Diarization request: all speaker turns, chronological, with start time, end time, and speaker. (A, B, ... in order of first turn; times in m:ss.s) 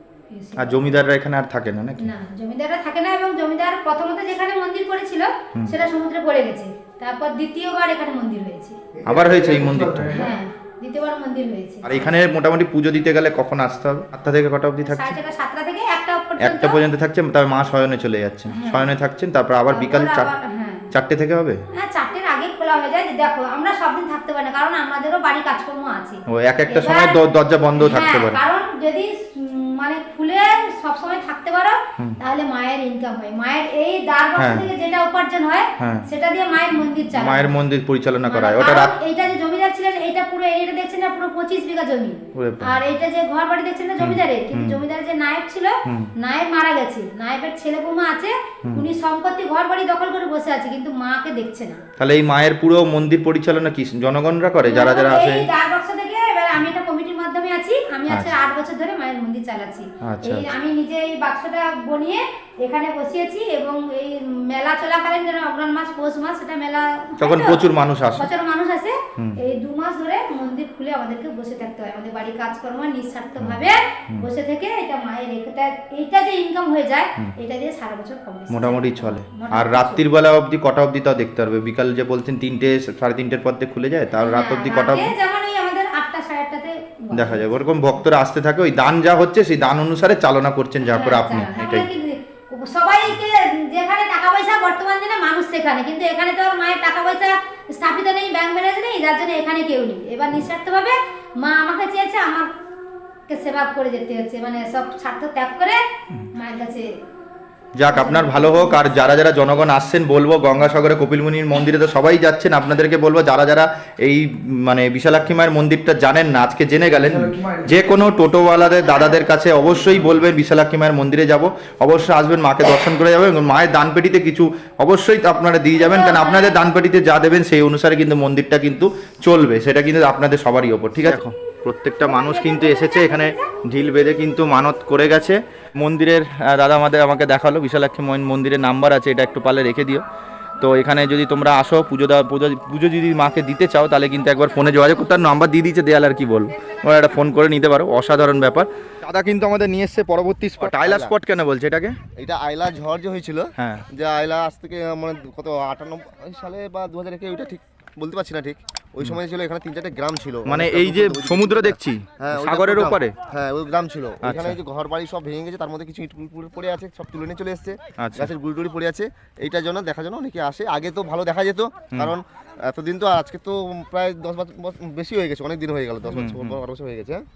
0:00.3-0:00.7 A
0:00.6-0:02.1 B
0:02.0-0:08.8 A
0:09.1-0:10.3 B
0:10.1-0:12.1 A
0:11.8-0:15.2 B
0:14.9-0:16.8 A
0:16.4-0:20.3 B
0:18.5-0:18.9 A
0:19.7-0:20.9 A
0:20.9-0:21.6 B
0:21.7-0:27.2 A
0:26.3-0:28.4 B
0:27.8-0:37.6 A
0:34.4-0:34.7 B
0:35.8-0:36.0 B
0:37.1-0:38.9 B
0:38.3-0:51.8 A
0:42.3-0:42.8 B
0:44.0-0:44.8 B
0:45.9-0:46.1 B
0:52.0-0:55.5 B
0:54.6-1:20.0 A
1:00.0-1:00.5 B
1:07.2-1:08.3 B
1:13.4-1:14.3 B
1:18.5-1:25.1 B
1:24.2-1:27.4 A
1:27.1-1:31.9 B
1:30.9-1:42.5 A
1:43.3-1:47.0 A
1:47.8-2:20.0 B
1:47.9-1:48.8 A
2:05.8-2:06.6 A
2:12.0-2:13.4 A
2:20.6-2:32.0 B
2:30.6-2:31.1 C
2:32.2-2:57.3 C
2:33.6-2:33.9 B
2:40.5-2:43.2 B
2:44.2-2:44.6 B
2:48.0-2:48.3 B
2:56.1-2:56.6 B